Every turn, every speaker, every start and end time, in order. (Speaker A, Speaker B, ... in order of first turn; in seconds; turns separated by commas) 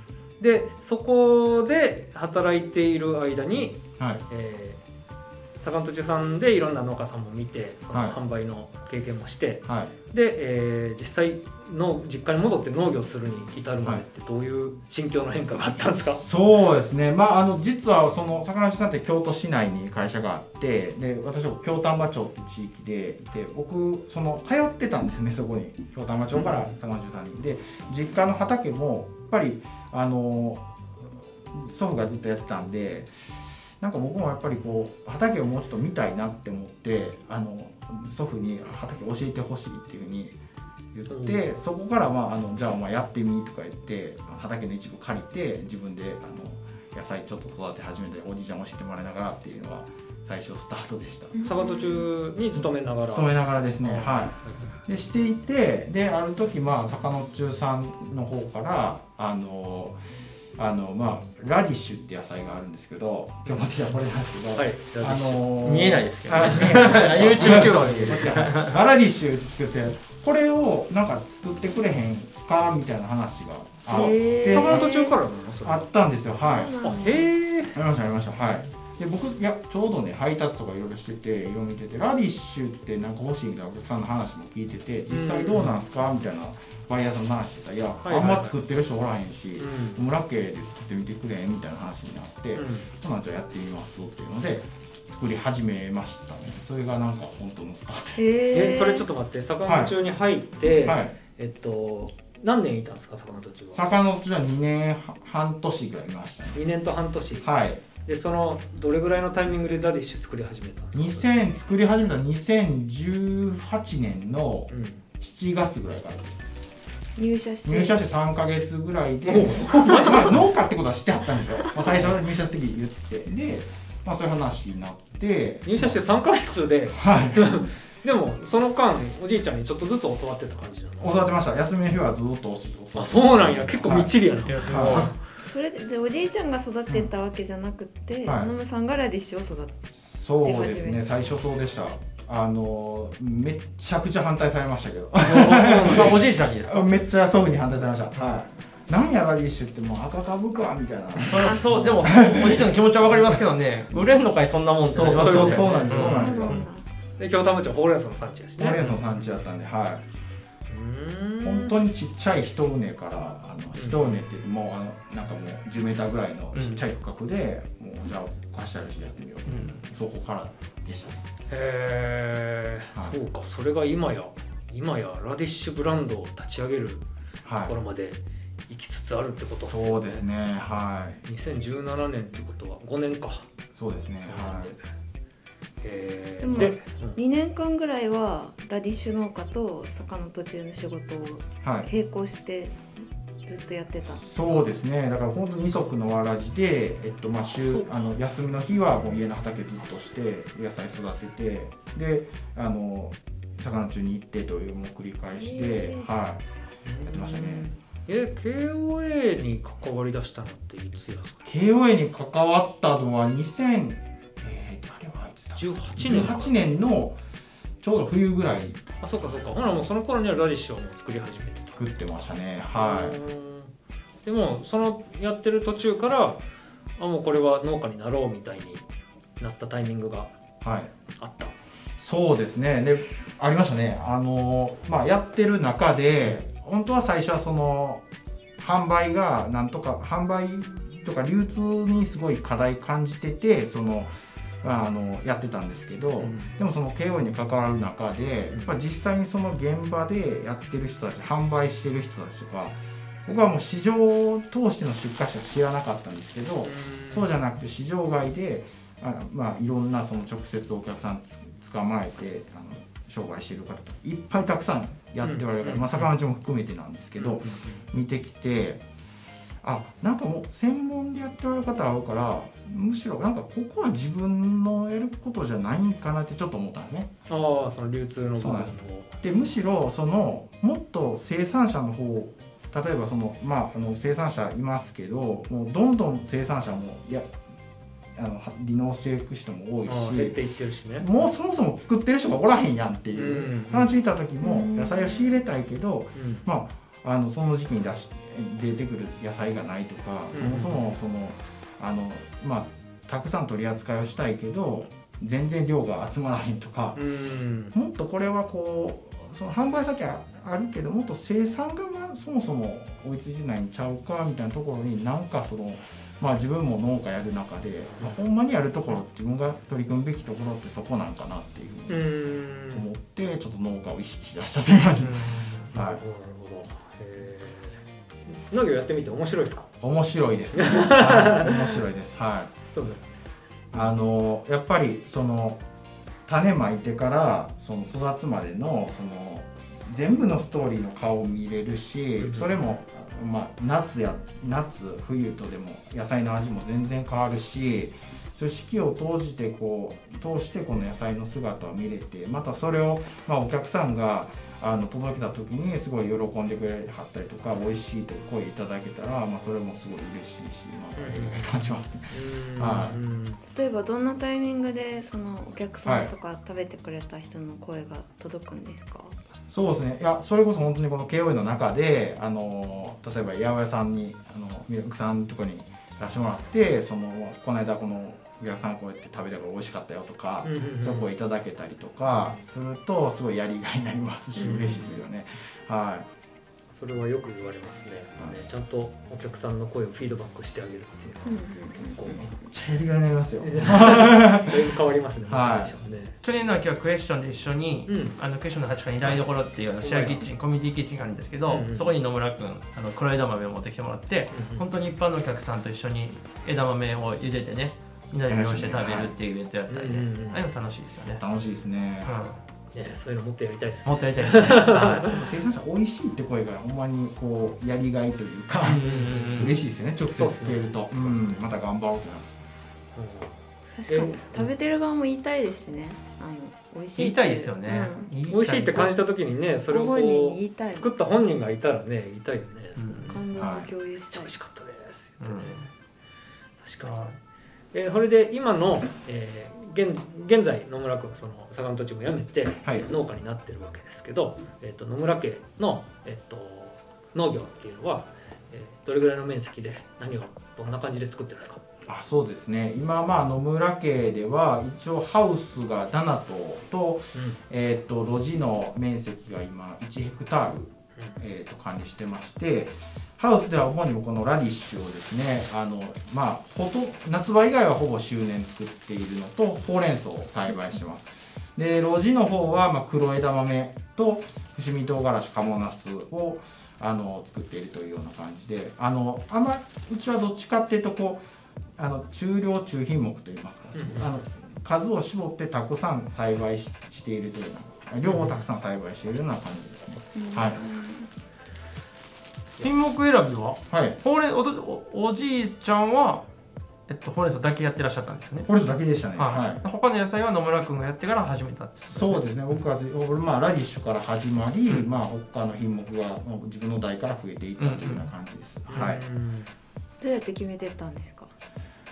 Speaker A: 0.4-4.8, Speaker B: 4.0-4.2, Speaker A: 5.6-16.2, Speaker B: 7.9-8.2, Speaker B: 9.7-9.9, Speaker B: 15.9-40.4, Speaker A: 26.3-26.7, Speaker B: 40.9-51.4, Speaker A: 41.1-41.4, Speaker C: 51.3-52.1, Speaker A: 51.5-54.7, Speaker B: 52.5-60.0, Speaker B: 60.6-74.9, Speaker A: 64.5-65.6, Speaker D: 65.6-68.8, Speaker A: 67.0-68.5, Speaker C: 73.9-75.2, Speaker A: 73.9-75.9, Speaker B: 75.6-76.8, Speaker C: 76.4-77.3, Speaker A: 76.8-77.8, Speaker B: 77.8-98.2, Speaker A: 85.1-85.8, Speaker A: 88.0-88.6, Speaker A: 89.6-90.0, Speaker A: 92.5-92.9, Speaker C: 98.2-99.1, Speaker A: 98.5-103.9, Speaker B: 99.7-99.9, Speaker B: 100.7-101.2, Speaker B: 103.7-106.6, Speaker A: 106.5-107.5, Speaker B: 107.4-107.8, Speaker A: 108.0-111.3, Speaker B: 110.9-116.5, Speaker A: 114.7-115.0, Speaker C: 117.2-118.0, Speaker B: 117.7-126.0, Speaker A: 119.3-120.4, Speaker A: 125.7-131.2, Speaker B: 126.9-127.7, Speaker B: 131.0-135.1, Speaker A: 133.0-135.2, Speaker D: 134.5-135.1, Speaker C: 135.4-139.9, Speaker B: 138.2-138.5, Speaker B: 139.9-153.4, Speaker C: 140.4-141.0, Speaker D: 145.2-147.0, Speaker D: 151.2-156.6, Speaker B: 154.9-156.7, Speaker A: 155.0-156.6, Speaker C: 155.8-156.8, Speaker A: 157.2-159.1, Speaker B: 158.6-160.0, Speaker A: 160.7-161.8, Speaker B: 161.4-171.2, Speaker A: 163.8-164.2, Speaker D: 166.6-166.8, Speaker D: 169.5-169.8, Speaker A: 171.5-177.0, Speaker B: 177.4-177.8, Speaker A: 177.6-180.3, Speaker B: 179.5-181.2, Speaker A: 181.2-183.5, Speaker B: 183.8-184.8, Speaker A: 184.2-184.8, Speaker A: 185.8-187.2, Speaker C: 186.4-192.9, Speaker B: 191.6-191.9, Speaker C: 193.5-194.7, Speaker B: 194.0-206.4, Speaker A: 197.6-197.9, Speaker C: 205.3-206.1, Speaker A: 206.8-211.5, Speaker B: 207.1-207.7, Speaker B: 211.4-217.2, Speaker A: 215.6-216.6, Speaker B: 217.8-219.5, Speaker A: 219.0-221.8, Speaker B: 221.7-223.2, Speaker A: 222.8-223.7, Speaker A: 224.2-226.4, Speaker A: 227.0-228.8, Speaker A: 229.4-230.3, Speaker B: 230.6-230.9, Speaker A: 231.2-231.5, Speaker B: 232.0-238.0, Speaker B: 238.6-268.8, Speaker A: 246.2-246.6, Speaker A: 256.6-257.3, Speaker A: 265.2-266.1, Speaker A: 267.2-267.9, Speaker B: 269.6-277.1, Speaker A: 277.3-279.1, Speaker B: 278.4-287.3, Speaker B: 288.1-290.4, Speaker A: 289.9-291.2, Speaker B: 291.0-307.0, Speaker A: 293.1-293.9, Speaker C: 294.4-295.3, Speaker A: 296.2-296.4, Speaker A: 300.3-300.9, Speaker A: 306.9-307.8, Speaker B: 307.7-322.1, Speaker A: 321.9-322.9, Speaker B: 322.7-326.0, Speaker D: 325.0-325.6, Speaker A: 325.7-329.7, Speaker B: 329.8-332.5, Speaker A: 330.5-331.6, Speaker A: 332.7-333.0, Speaker B: 333.7-335.6, Speaker B: 336.3-363.0, Speaker A: 342.2-342.6, Speaker A: 361.0-361.5, Speaker A: 362.1-363.4, Speaker C: 363.5-369.2, Speaker B: 365.8-366.1, Speaker B: 369.5-386.1, Speaker A: 380.4-381.1, Speaker C: 384.4-385.0, Speaker A: 384.4-384.9, Speaker A: 386.7-392.3, Speaker C: 391.3-392.5, Speaker B: 392.3-395.8, Speaker A: 393.4-396.2, Speaker D: 396.2-411.2, Speaker A: 397.9-398.2, Speaker A: 399.0-400.2, Speaker A: 401.5-401.9, Speaker A: 404.3-404.6, Speaker B: 408.3-409.1, Speaker A: 409.7-410.4, Speaker B: 411.2-412.2, Speaker D: 412.0-412.4, Speaker A: 412.7-415.2, Speaker D: 413.9-415.1, Speaker B: 415.1-422.4, Speaker D: 418.6-419.5, Speaker A: 418.8-419.5, Speaker A: 420.1-421.5, Speaker A: 422.9-423.3, Speaker C: 423.8-428.1, Speaker A: 423.9-424.5, Speaker D: 427.0-428.9, Speaker A: 428.3-433.2, Speaker C: 429.7-430.9, Speaker D: 432.8-433.1, Speaker C: 433.1-434.3, Speaker B: 433.4-433.7, Speaker A: 434.1-435.5, Speaker D: 435.2-435.7, Speaker A: 436.6-437.1, Speaker D: 436.8-437.1, Speaker A: 437.7-451.6, Speaker B: 451.9-481.2, Speaker A: 457.1-457.4, Speaker B: 481.8-490.6, Speaker A: 483.7-484.1, Speaker A: 488.1-488.4, Speaker C: 490.1-491.1, Speaker D: 492.6-496.3, Speaker B: 493.7-494.0, Speaker D: 496.9-498.5, Speaker B: 498.5-499.6, Speaker D: 499.2-502.2, Speaker B: 501.8-509.0, Speaker D: 507.6-508.1, Speaker A: 508.7-509.5, Speaker C: 510.0-511.3